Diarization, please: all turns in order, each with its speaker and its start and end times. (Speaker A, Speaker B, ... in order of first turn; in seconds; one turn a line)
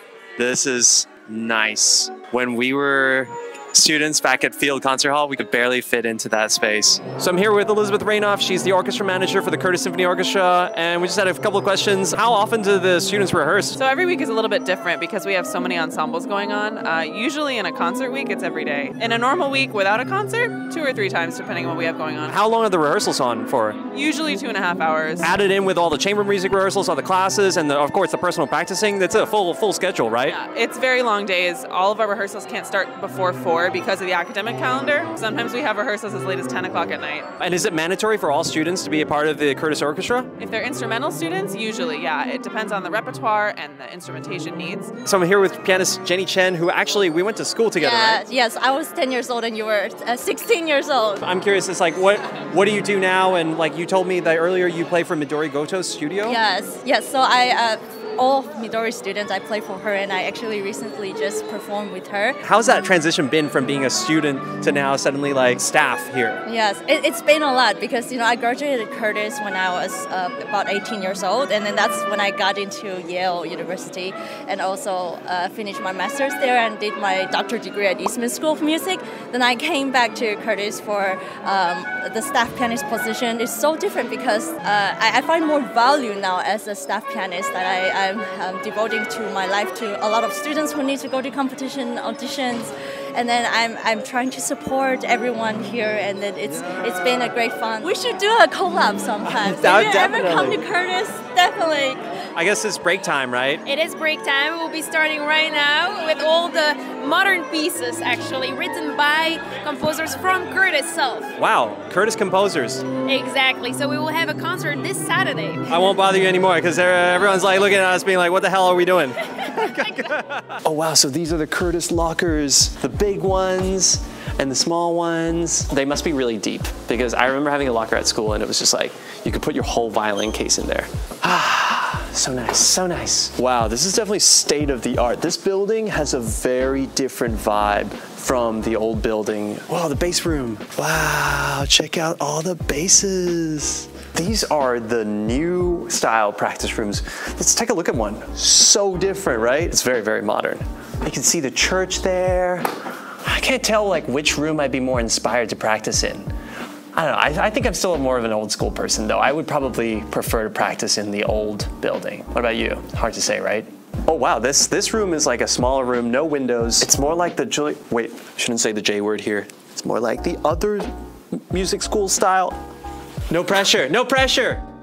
Speaker A: 0.4-13.8
Speaker B: 13.8-22.4
Speaker A: 22.3-23.8
Speaker B: 23.9-25.3
Speaker A: 25.2-30.4
Speaker B: 30.2-37.3
Speaker A: 37.4-40.3
Speaker B: 40.4-44.9
Speaker A: 45.0-48.3
Speaker C: 47.8-51.2
Speaker A: 51.2-56.4
Speaker C: 56.2-62.4
Speaker A: 62.4-66.4
Speaker C: 66.5-102.0
Speaker A: 99.2-100.6
Speaker A: 102.3-103.6
Speaker D: 103.6-111.3
Speaker A: 111.4-112.8
Speaker D: 113.0-115.7
Speaker A: 115.7-152.7
Speaker A: 153.2-156.3
Speaker A: 156.9-172.6
Speaker A: 173.3-174.6